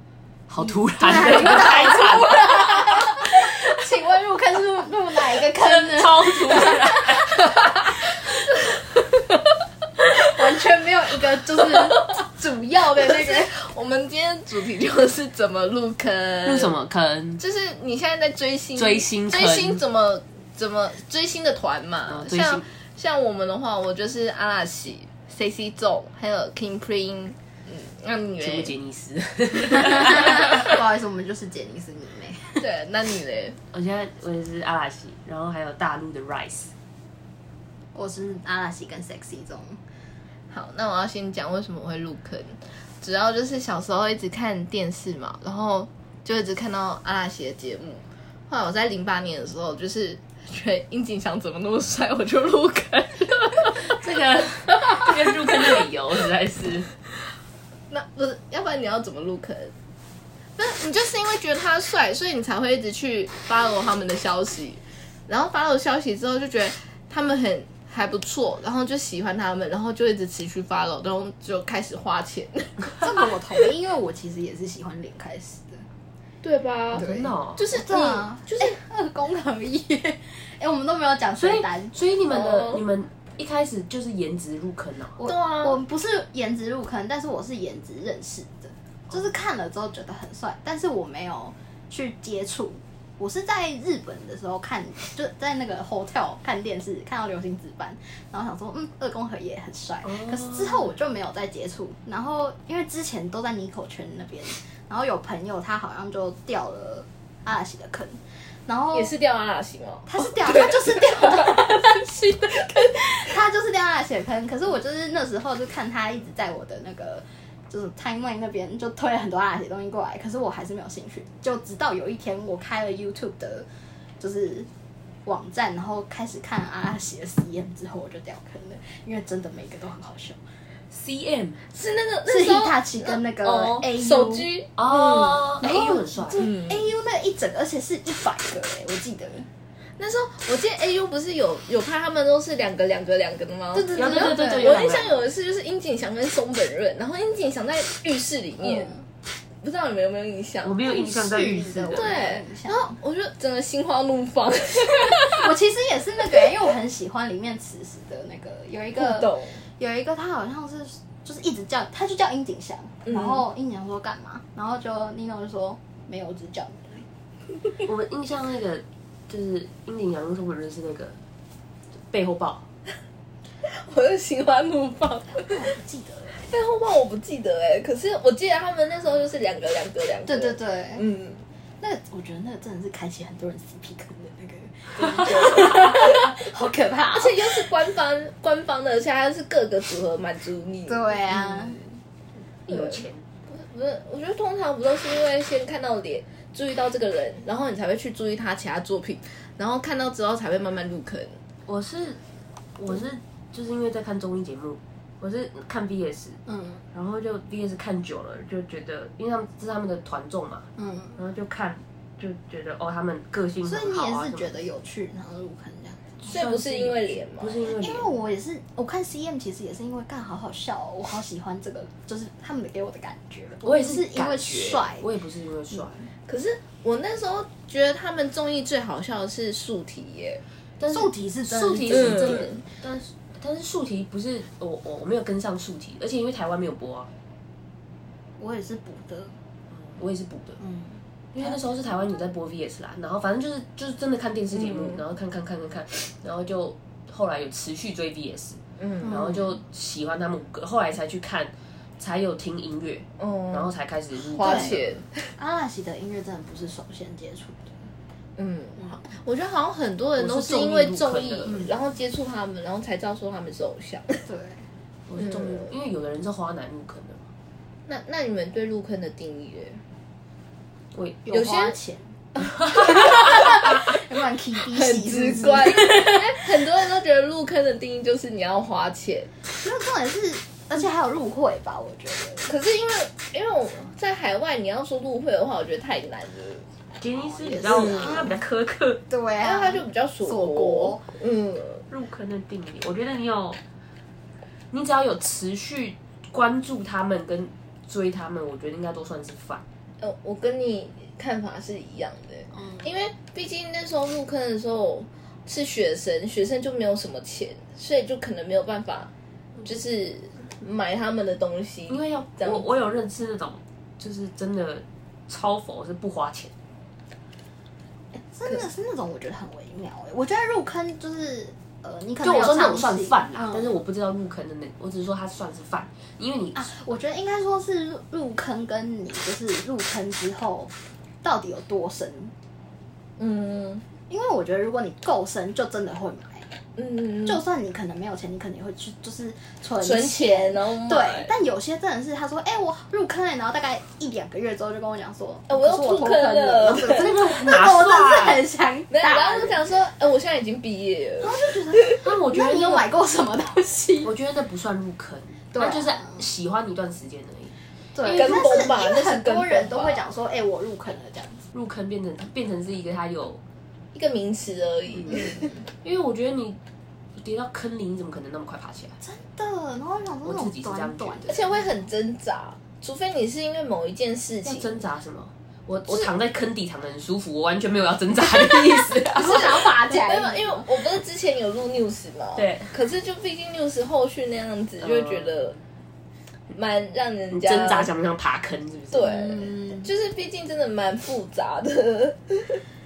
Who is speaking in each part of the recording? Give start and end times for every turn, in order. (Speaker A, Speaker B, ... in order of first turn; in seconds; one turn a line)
Speaker A: 0.5-2.6
Speaker B: 0.6-7.1
Speaker C: 1.3-3.2
Speaker A: 5.6-7.5
Speaker C: 7.3-7.9
Speaker C: 8.5-9.4
Speaker B: 10.2-13.5
Speaker C: 12.8-16.8
Speaker A: 16.4-17.4
Speaker C: 17.4-28.7
Speaker A: 18.8-19.8
Speaker A: 22.1-22.6
Speaker A: 28.4-30.7
Speaker B: 29.6-32.6
Speaker C: 32.6-33.6
Speaker A: 33.7-36.7
Speaker B: 37.9-39.8
Speaker C: 40.5-54.0
Speaker A: 53.7-56.9
Speaker C: 54.8-55.8
Speaker C: 57.9-59.7
Speaker C: 60.6-73.1
Speaker B: 73.0-75.9
Speaker C: 76.4-78.8
Speaker A: 76.9-77.7
Speaker B: 76.9-82.0
Speaker A: 81.4-85.2
Speaker C: 82.3-82.8
Speaker B: 85.2-109.1
Speaker C: 85.2-85.8
Speaker C: 108.9-111.8
Speaker B: 110.1-123.7
Speaker B: 124.2-124.7
Speaker B: 125.3-130.4
Speaker A: 130.9-131.6
Speaker C: 131.7-135.9
Speaker B: 132.3-134.5
Speaker A: 134.8-136.4
Speaker B: 135.6-139.5
Speaker C: 136.4-136.9
Speaker C: 140.0-149.0
Speaker B: 143.7-144.9
Speaker A: 143.9-145.2
Speaker B: 148.6-149.0
Speaker C: 149.6-150.8
Speaker A: 150.6-152.1
Speaker B: 150.8-152.9
Speaker C: 151.9-155.5
Speaker B: 155.1-167.1
Speaker C: 159.0-159.6
Speaker C: 163.1-163.4
Speaker A: 167.8-171.2
Speaker A: 172.1-172.7
Speaker C: 173.6-175.7
Speaker B: 175.4-176.4
Speaker C: 176.3-181.4
Speaker B: 180.3-181.1
Speaker B: 181.8-187.7
Speaker C: 185.0-186.3
Speaker C: 187.1-191.8
Speaker B: 190.9-191.9
Speaker A: 192.7-193.2
Speaker C: 192.7-201.4
Speaker A: 201.7-202.2
Speaker A: 202.8-206.4
Speaker B: 206.5-206.8
Speaker A: 206.9-214.7
Speaker B: 210.8-211.2
Speaker B: 213.6-216.2
Speaker A: 216.2-218.1
Speaker C: 216.3-217.6
Speaker B: 217.7-225.1
Speaker A: 223.6-226.0
Speaker B: 225.7-226.0
Speaker C: 226.3-230.4
Speaker A: 230.8-237.1
Speaker B: 230.9-232.6
Speaker C: 231.9-232.6
Speaker B: 238.4-239.4
Speaker A: 239.8-240.6
Speaker B: 240.6-241.6
Speaker A: 241.3-254.9
Speaker C: 244.5-245.0
Speaker C: 248.8-249.1
Speaker B: 249.0-249.5
Speaker C: 253.2-255.3
Speaker B: 254.4-254.7
Speaker B: 255.4-257.8
Speaker C: 258.4-264.2
Speaker A: 260.2-261.6
Speaker B: 264.3-264.7
Speaker A: 265.1-267.3
Speaker C: 265.2-265.7
Speaker C: 267.9-269.8
Speaker A: 270.9-271.2
Speaker B: 271.2-276.4
Speaker C: 271.3-271.8
Speaker C: 272.4-273.6
Speaker C: 274.7-279.3
Speaker B: 279.6-282.5
Speaker C: 282.5-286.7
Speaker A: 287.0-289.1
Speaker B: 287.1-288.4
Speaker C: 287.7-288.3
Speaker B: 289.1-291.1
Speaker C: 289.4-291.9
Speaker A: 291.9-293.6
Speaker A: 294.7-299.6
Speaker C: 300.0-309.1
Speaker B: 302.6-302.8
Speaker C: 309.6-312.7
Speaker A: 311.9-316.5
Speaker B: 318.3-323.8
Speaker A: 322.2-326.7
Speaker B: 326.6-332.3
Speaker C: 333.2-333.9
Speaker B: 334.1-336.5
Speaker C: 336.8-337.4
Speaker B: 337.2-349.6
Speaker C: 339.8-341.3
Speaker C: 345.5-347.1
Speaker A: 346.9-348.4
Speaker C: 348.9-351.9
Speaker B: 351.2-354.1
Speaker A: 352.0-352.9
Speaker A: 354.0-357.6
Speaker B: 355.5-356.2
Speaker B: 357.9-361.4
Speaker C: 358.1-360.1
Speaker A: 358.1-358.4
Speaker A: 361.5-363.4
Speaker C: 363.9-365.5
Speaker A: 365.8-366.6
Speaker A: 367.2-369.0
Speaker B: 369.0-371.7
Speaker A: 370.2-371.4
Speaker C: 371.3-374.7
Speaker A: 374.4-379.6
Speaker B: 379.1-380.6
Speaker C: 379.2-385.6
Speaker A: 382.4-382.8
Speaker A: 384.8-385.4
Speaker C: 386.5-387.9
Speaker A: 387.3-389.4
Speaker C: 388.9-392.6
Speaker B: 389.1-389.9